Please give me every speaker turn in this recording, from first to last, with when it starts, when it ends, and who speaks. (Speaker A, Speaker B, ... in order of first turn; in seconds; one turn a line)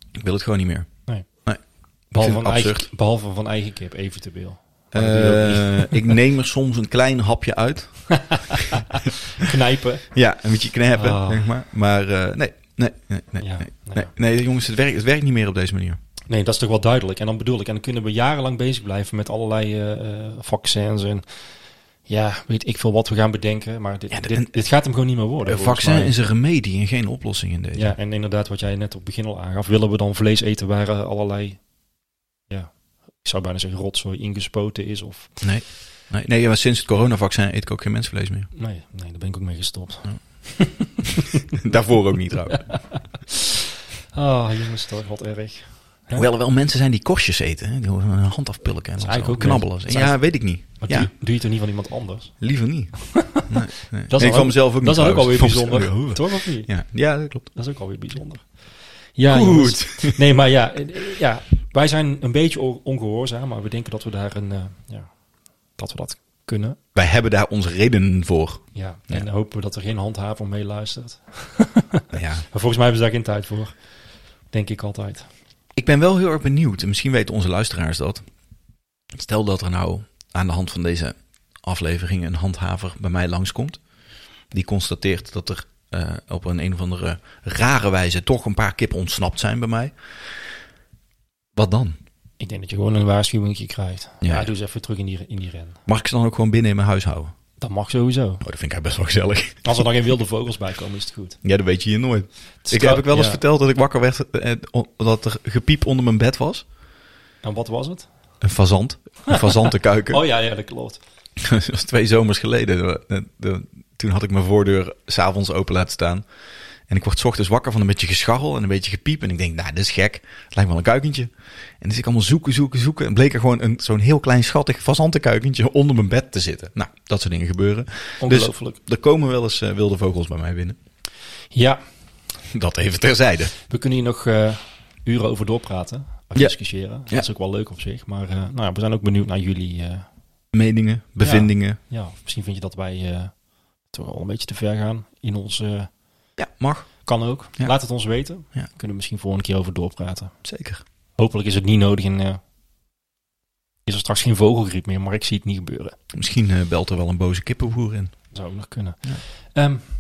Speaker A: 0.2-0.9
Speaker A: 2.1-2.9
Speaker B: 2.1-6.2
Speaker A: 4.9-8.4
Speaker B: 8.3-10.1
Speaker A: 10.1-16.0
Speaker B: 10.9-11.5
Speaker B: 13.4-14.1
Speaker B: 16.3-21.4
Speaker B: 22.1-26.1
Speaker A: 24.1-24.6
Speaker A: 25.4-27.9
Speaker B: 27.8-31.6
Speaker B: 32.5-35.4
Speaker A: 35.4-38.5
Speaker B: 38.5-41.3
Speaker A: 41.5-42.7
Speaker B: 44.1-46.2
Speaker A: 46.1-51.1
Speaker B: 49.0-52.4
Speaker A: 52.4-57.5
Speaker B: 53.0-53.5
Speaker B: 54.1-56.8
Speaker B: 57.5-65.1
Speaker A: 59.3-60.2
Speaker B: 65.8-66.8
Speaker A: 67.0-69.3
Speaker B: 68.8-73.8
Speaker A: 72.1-72.5
Speaker B: 74.5-75.3
Speaker A: 75.8-78.2
Speaker A: 79.2-83.8
Speaker A: 84.5-89.9
Speaker A: 91.6-92.0
Speaker B: 92.4-95.8
Speaker A: 94.2-94.5
Speaker A: 95.9-97.3
Speaker B: 97.6-98.4
Speaker A: 98.4-99.8
Speaker B: 99.6-101.4
Speaker A: 101.4-106.7
Speaker B: 102.7-103.4
Speaker B: 107.4-108.1
Speaker A: 108.4-110.2
Speaker B: 109.3-111.0
Speaker A: 111.4-116.2
Speaker A: 116.9-121.3
Speaker A: 121.8-130.8
Speaker B: 128.2-128.8
Speaker B: 131.5-131.8
Speaker A: 132.5-133.5
Speaker B: 133.7-140.1
Speaker A: 140.5-141.8
Speaker B: 141.2-143.3
Speaker B: 143.9-145.9
Speaker A: 146.4-147.1
Speaker B: 147.1-150.3
Speaker A: 150.4-150.8
Speaker B: 151.2-152.4
Speaker B: 153.9-156.0
Speaker A: 156.1-158.1
Speaker B: 158.3-159.8